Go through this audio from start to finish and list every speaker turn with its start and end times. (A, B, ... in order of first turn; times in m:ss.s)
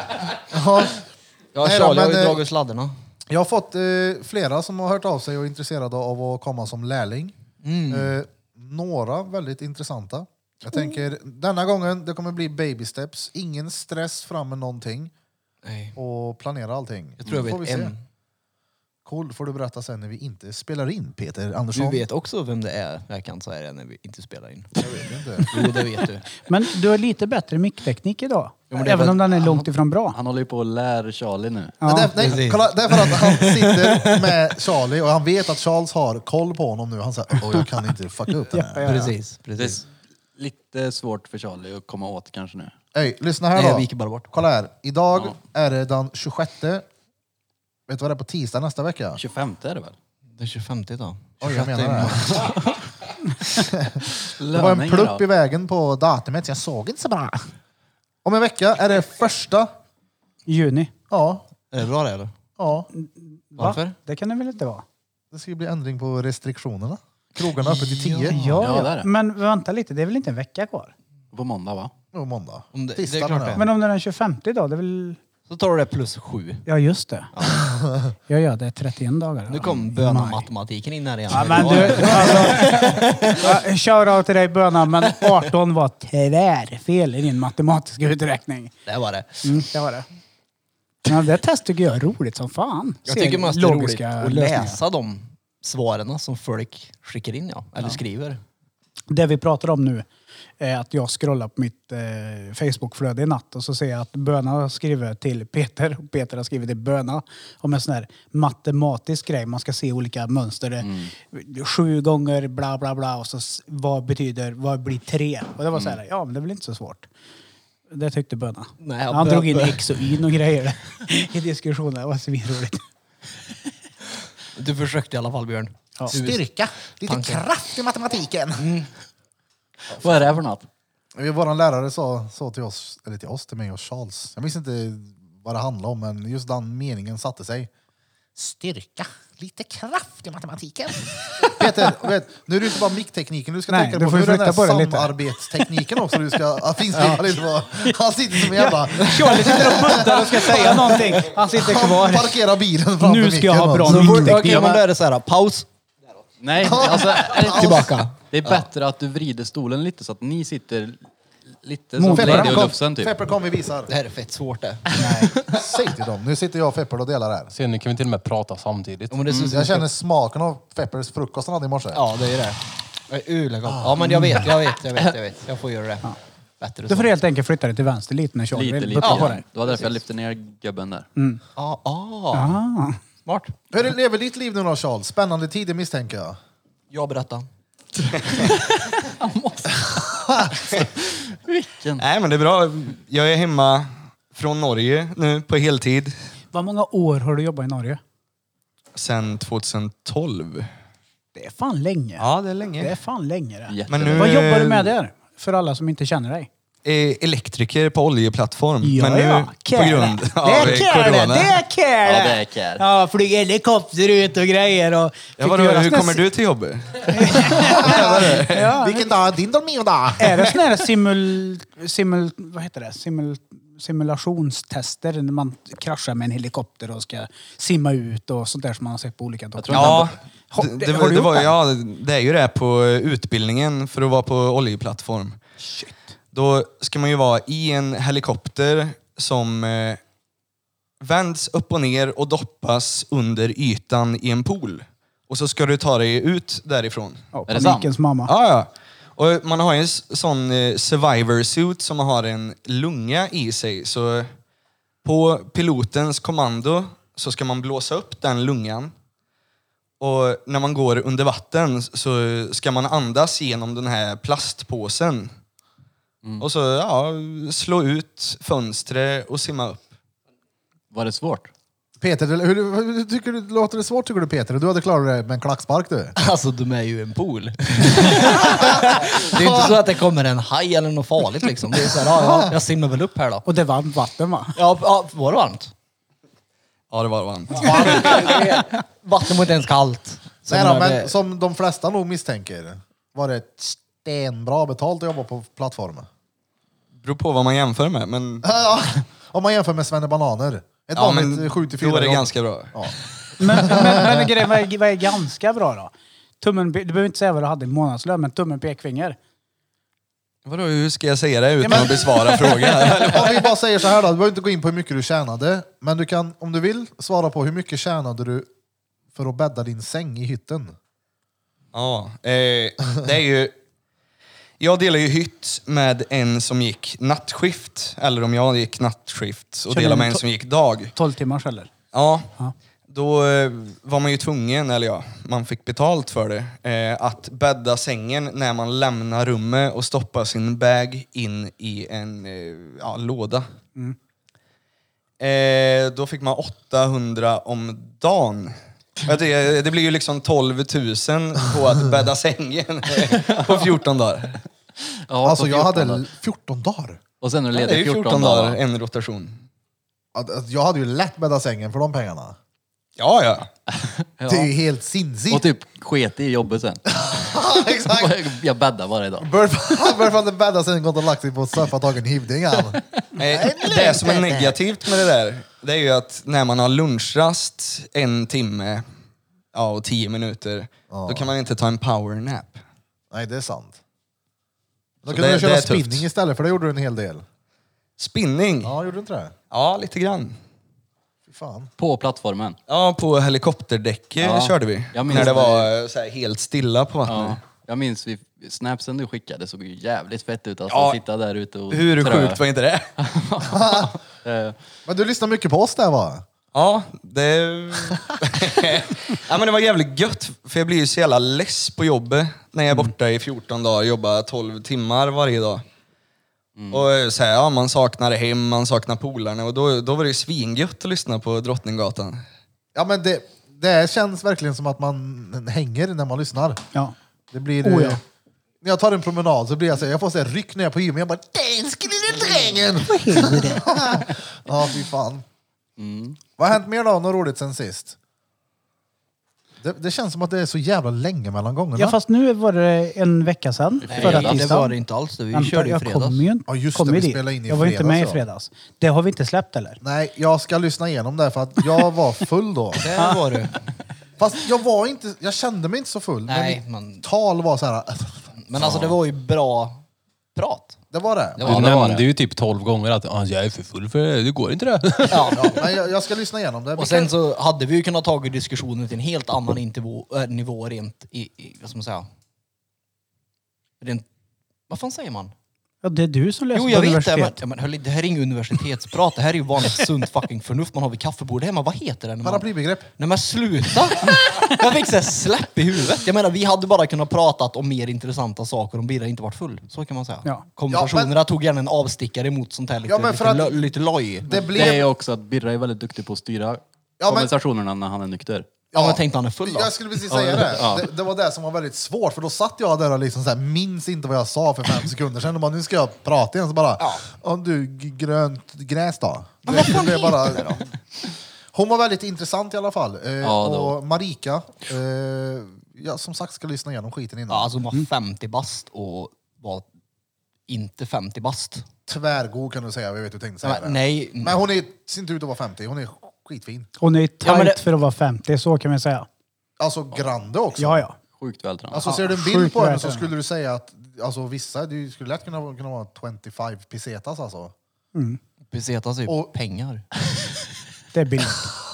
0:00.4-0:01.0 A
0:01.5-0:02.9 B
0:01.6-0:02.4 A
0:03.3-0:07.4 A
0:07.6-0:08.2 B
0:07.9-0:15.1 A
0:15.6-0:16.0 B
0:16.0-0:17.9 A
0:17.2-0:18.0 B
0:19.0-0:22.0 A
0:21.7-0:24.8 B
0:24.8-0:25.5 A
0:25.4-0:26.3 B
0:26.4-0:30.2 C
0:28.7-0:29.7 B
0:30.1-0:31.8 D
0:31.8-0:32.1 C
0:31.8-0:39.1 A
0:32.2-0:34.4 B
0:38.5-0:39.1 C
0:38.8-0:39.8 B
0:39.6-0:39.8 D
0:40.4-0:42.7 D
0:42.9-0:46.8 A
0:43.6-0:44.3 B
0:47.9-0:49.2 A
0:49.2-0:50.0 D
0:50.4-0:52.5 B
0:51.4-0:52.5 A
0:52.4-0:52.8 D
0:53.6-0:57.5 A
0:54.2-0:55.2 D
0:58.2-0:59.7 A
1:00.5-1:00.9 C
1:01.1-1:01.4 A
1:01.7-1:02.3 B
1:02.6-1:02.9 A
1:02.9-1:04.8 C
1:03.6-1:04.0 B
1:05.3-1:08.6 A
1:07.6-1:08.6 B
1:08.3-1:10.9 C
1:08.6-1:09.1 D
1:11.3-1:11.9 D
1:12.1-1:13.6 A
1:12.7-1:13.7 B
1:13.6-1:15.2 C
1:15.5-1:16.7 B
1:16.7-1:17.3 C
1:17.3-1:17.8 B
1:17.6-1:18.1 A
1:18.3-1:20.5 C
1:19.5-1:23.6 B
1:21.3-1:28.8 C
1:21.6-1:22.1 D
1:28.9-1:29.4 B
1:29.4-1:30.0 C
1:31.1-1:34.8 C
1:33.1-1:38.4 B
1:39.1-1:40.1 C
1:40.6-1:57.1 C
1:50.8-1:51.1 D
1:57.9-2:02.8 C
1:58.8-1:59.8 B
2:04.6-2:06.4 B
2:06.1-2:08.7 A
2:07.1-2:07.4 B
2:08.6-2:08.9 B
2:10.0-2:10.7 D
2:11.2-2:17.7 A
2:18.4-2:34.5 A
2:23.7-2:25.2 C
2:27.8-2:32.4 C
2:33.0-2:34.8 C
2:33.9-2:35.7 B
2:34.4-2:34.7 D
2:36.4-2:41.0 D
2:36.6-2:38.0 A
2:36.7-2:38.6 B
2:41.6-2:43.2 D
2:42.0-2:42.7 C
2:42.1-2:43.9 A
2:43.9-2:45.2 B
2:45.0-2:45.3 C
2:45.4-2:47.5 A
2:47.5-2:49.2 E
2:49.1-2:49.9 B
2:49.3-2:49.6 D
2:49.5-2:52.0 A
2:51.9-2:57.1 B
2:53.7-2:54.2 A
2:54.2-2:54.4 C
2:56.9-2:59.4 C
2:58.5-3:01.1 D
2:59.0-2:59.9 B
3:01.2-3:01.4 C
3:01.6-3:02.6 B
3:02.3-3:03.0 C
3:03.2-3:03.6 B
3:03.7-3:06.4 A
3:06.9-3:07.5 B
3:08.3-3:12.0 D
3:10.0-3:10.6 A
3:12.0-3:16.1 F
3:16.5-3:18.0 C
3:19.0-3:20.7 F
3:21.4-3:22.3 C
3:22.2-3:23.0 F
3:22.8-3:26.5 C
3:23.7-3:24.4 D
3:23.9-3:24.9 F
3:26.8-3:31.6 F
3:28.8-3:36.2 C
3:32.0-3:32.8 D
3:35.4-3:38.7 F
3:37.1-3:39.2 C
3:37.6-3:40.5 A
3:40.2-3:51.5 C
3:49.6-3:50.2 D
3:49.7-3:55.4 F
3:55.6-3:56.0 C
3:56.3-4:00.0 F
4:01.0-4:07.2 F
4:07.3-4:08.3 C
4:07.5-4:07.9 D
4:08.3-4:14.3 F
4:15.0-4:18.9 F
4:20.0-4:25.3 F
4:26.4-4:29.9 F
4:30.9-4:31.5 D
4:32.0-4:36.2 A
4:36.2-4:43.5 B
4:38.5-4:39.8 A
4:42.0-4:42.6 A
4:43.5-4:44.6 C
4:44.6-4:45.7 B
4:46.9-4:48.4 F
4:47.6-4:48.4 A
4:47.6-4:51.1 B
4:50.5-4:56.1 A
4:57.0-4:58.5 F
4:58.4-5:02.9 A
5:01.0-5:02.9 F
5:03.4-5:09.2 C
5:03.5-5:04.3 A
5:10.5-5:13.5 F
5:11.6-5:12.5 C
5:11.7-5:12.0 A
5:12.9-5:18.5 A
5:19.2-5:20.8 A
5:21.7-5:23.5 F
5:24.6-5:30.9 F
5:29.7-5:30.2 C
5:31.0-5:31.7 C
5:31.9-5:32.3 F
5:32.9-5:43.5 F
5:45.2-5:54.4 F
5:53.2-5:53.6 D
5:55.1-5:56.1 D
5:55.2-5:57.0 A
5:57.2-5:58.6 D
5:57.5-5:59.4 F
6:00.1-6:02.4 A
6:03.0-6:03.5 F
6:03.7-6:04.5 D
6:04.3-6:05.5 A
6:05.3-6:09.3 D
6:06.9-6:08.3 A
6:09.2-6:14.6 A
6:13.2-6:18.8 F
6:19.5-6:22.6 F
6:20.9-6:21.3 A
6:23.1-6:23.8 A
6:25.0-6:27.2 A
6:25.1-6:26.0 F
6:28.0-6:28.7 F
6:28.6-6:29.3 A
6:29.5-6:30.4 F
6:31.3-6:31.7 A
6:31.8-6:32.6 D
6:32.7-6:37.4 F
6:34.2-6:35.7 D
6:37.1-6:42.4 D
6:40.7-6:41.0 F
6:41.7-6:42.9 F
6:43.0-6:44.6 D
6:43.5-6:43.9 A
6:44.9-6:46.2 A
6:46.5-6:55.6 F
6:56.6-6:56.9 D
6:56.7-7:02.2 F
7:02.8-7:06.6 A
7:07.3-7:08.0 A
7:07.6-7:08.0 C
7:08.6-7:15.2 A
7:12.8-7:14.0 C
7:15.8-7:16.2 D
7:16.4-7:18.0 A
7:19.6-7:22.0 A
7:21.8-7:24.8 C
7:23.8-7:24.5 D
7:23.9-7:26.2 B
7:25.3-7:29.8 C
7:26.5-7:28.2 A
7:29.8-7:32.8 A
7:32.8-7:33.7 B
7:34.2-7:39.0 A
7:36.3-7:37.0 B
7:38.4-7:39.8 B
7:40.4-7:40.8 B
7:40.9-7:41.5 A
7:41.4-7:42.1 B
7:41.4-7:45.3 E
7:41.6-7:42.0 D
7:45.1-7:45.7 B
7:45.3-7:47.1 A
7:46.8-7:52.1 B
7:53.8-7:54.1 B
7:54.7-7:55.3 B
7:55.8-7:57.4 C
7:56.5-8:14.8 B
8:02.2-8:02.9 A
8:10.7-8:11.2 A
8:12.9-8:13.7 A
8:14.3-8:14.8 A
8:14.5-8:18.6 D
8:17.0-8:17.3 A
8:18.7-8:19.8 B
8:18.7-8:30.6 A
8:20.1-8:20.9 D
8:26.8-8:27.0 B
8:29.5-8:30.7 B
8:31.5-8:37.5 A
8:33.2-8:33.8 D
8:37.3-8:39.7 B
8:40.5-8:41.7 B
8:41.9-8:46.7 A
8:43.4-8:44.4 B
8:46.8-8:49.1 C
8:47.2-8:47.6 B
8:49.6-8:50.8 A
8:50.6-8:51.0 C
8:51.2-8:51.8 D
8:51.7-8:57.5 A
8:51.8-8:53.1 C
8:58.0-8:58.2 C
8:58.5-8:59.9 B
8:59.1-8:59.3 A
9:00.9-9:01.5 C